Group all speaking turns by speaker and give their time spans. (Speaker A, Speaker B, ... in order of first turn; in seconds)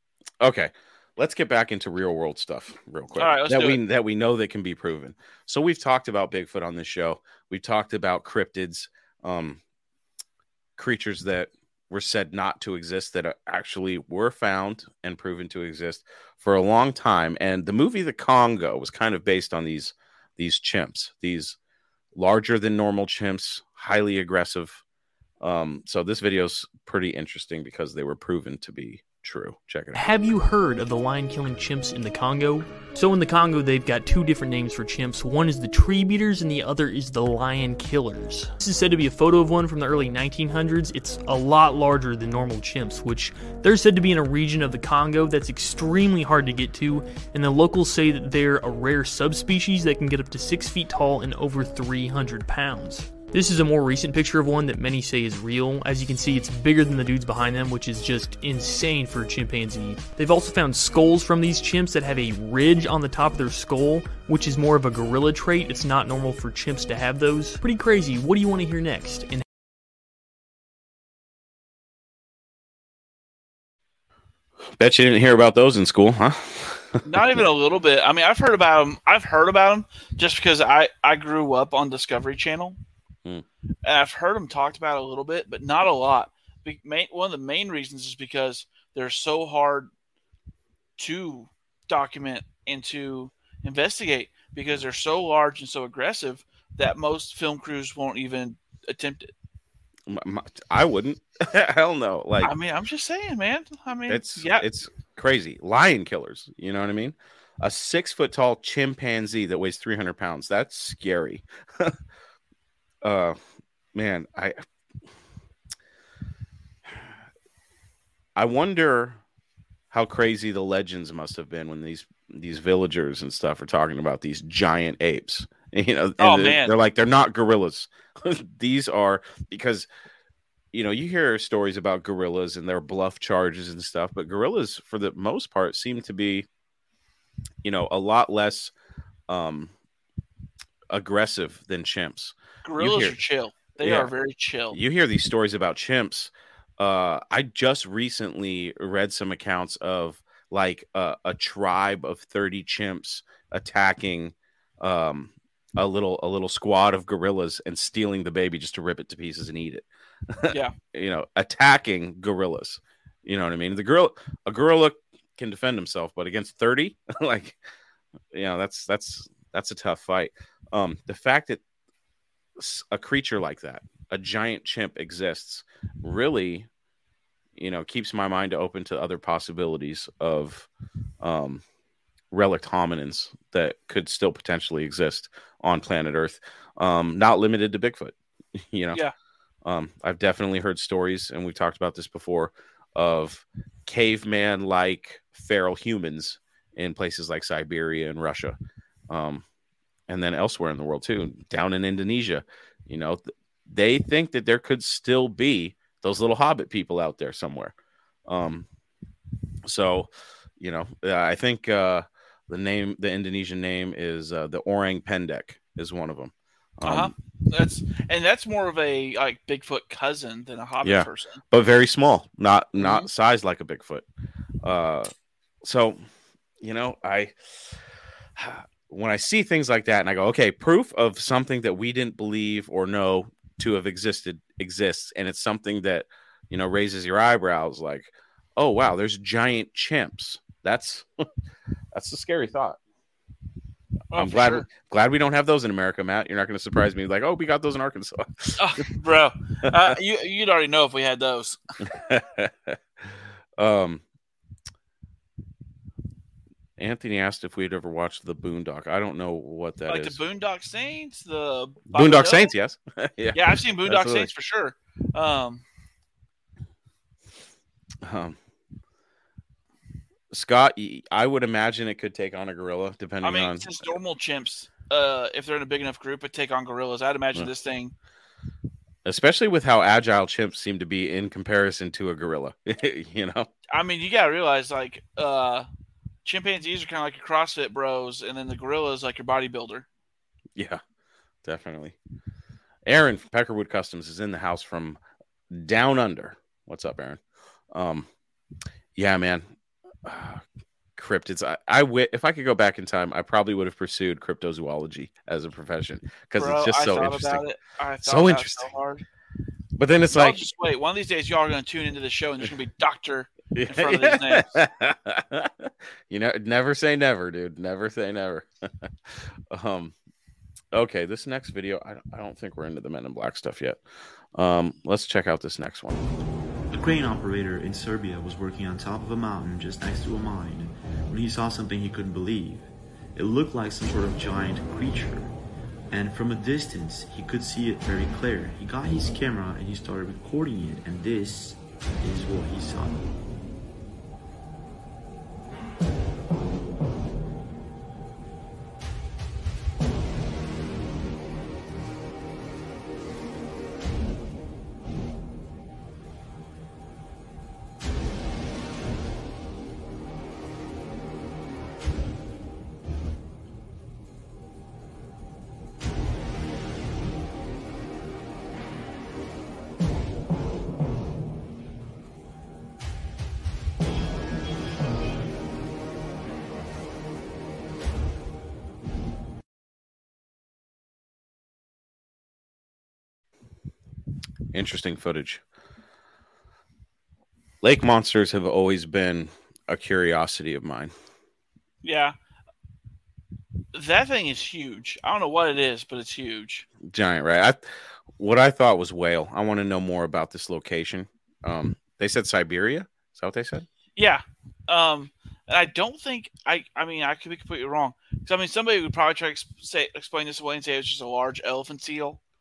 Speaker A: 0.4-9.6, 10.8-21.6, 22.1-24.8, 25.4-30.1, 74.8-77.0, 100.1-102.5, 104.1-112.0, 113.0-113.4, 113.9-114.6, 118.3-119.2, 119.9-129.9, 130.7-136.5, 137.6-138.7, 139.3-139.7, 140.9-143.2, 143.8-144.1, 144.7-167.6, 168.3-171.6, 172.6-176.7, 177.6-180.7, 181.2-181.6, 182.3-189.0, 189.6-198.6, 199.1-199.4, 200.1-207.7, 208.3-208.7, 209.6-217.1, 220.8-224.1, 224.6-225.1, 225.6-226.0, 226.6-227.7, 228.4-241.2, 241.9-242.8, 244.1-248.8, 251.8-254.0, 256.8-260.2, 261.9-264.3, 268.0-268.4, 270.3-273.9, 279.0-283.5, 290.5-290.8, 291.4-292.0, 292.8-297.2, 297.7-298.1, 298.9-299.5, 300.0-300.4, 300.9-307.4, 308.0-308.7, 309.8-310.4, 313.5-319.9, 320.7-323.8, 324.3-326.1, 384.5-385.4, 387.6-390.9, 396.8-403.7
Speaker B: 3.2-3.8, 77.0-82.8, 83.8-89.9, 91.0-99.3, 102.4-104.7, 126.2-126.7, 142.6-144.8, 216.8-221.4, 222.8-223.1, 244.1-244.7, 248.6-251.6, 259.9-262.5, 263.3-265.6, 273.2-277.9, 283.7-285.7, 286.2-289.9, 306.4-309.0, 310.1-314.6, 391.8-392.1, 393.7-396.7, 403.9-412.2
Speaker C: 29.9-69.4
Speaker D: 326.7-335.3, 335.9-343.1